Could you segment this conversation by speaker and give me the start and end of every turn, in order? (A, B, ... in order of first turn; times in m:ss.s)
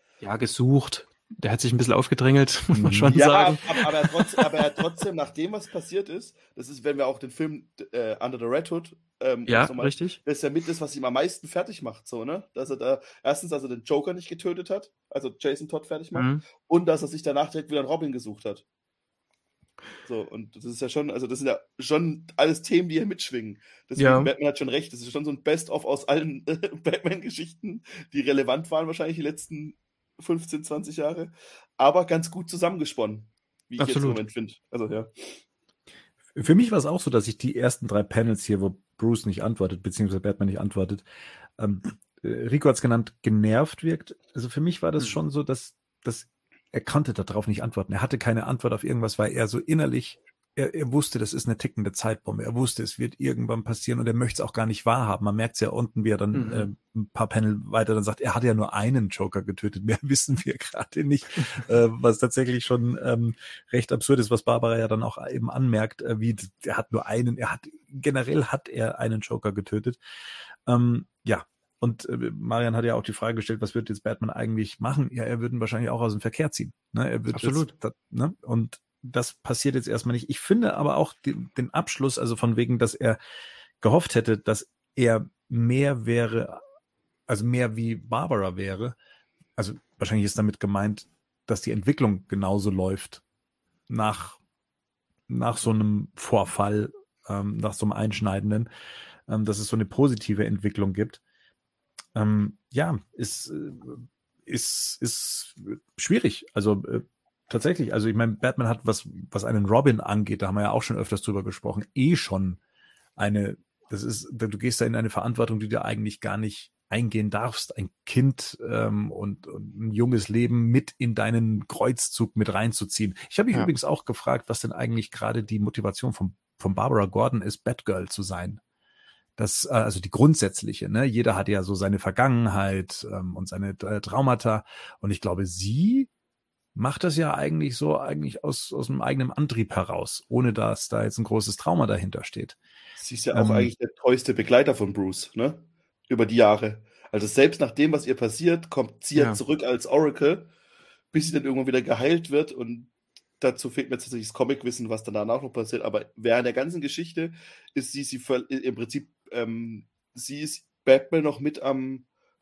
0:00.2-0:04.5 A
0:02.8-0:03.2 B
0:03.1-0:18.6 C
0:09.5-0:10.2 A
0:16.2-0:16.4 A
0:20.0-0:35.4 C
0:24.0-0:24.3 A
0:33.8-0:34.2 A
0:36.4-0:41.0 B
0:41.6-1:10.0 B
0:56.3-0:56.7 A
1:10.7-1:23.2 B
1:17.3-1:17.7 A
1:23.8-1:26.6 B
1:27.3-1:29.0 B
1:29.6-1:33.2 B
1:33.9-1:34.4 B
1:35.3-1:38.7 B
1:39.3-1:41.2 B
1:42.2-1:52.6 B
1:53.2-2:08.6 B
2:09.4-2:16.1 B
2:16.8-2:22.6 B
2:23.0-2:30.5 C
2:23.3-2:23.7 B
2:31.1-2:42.1 C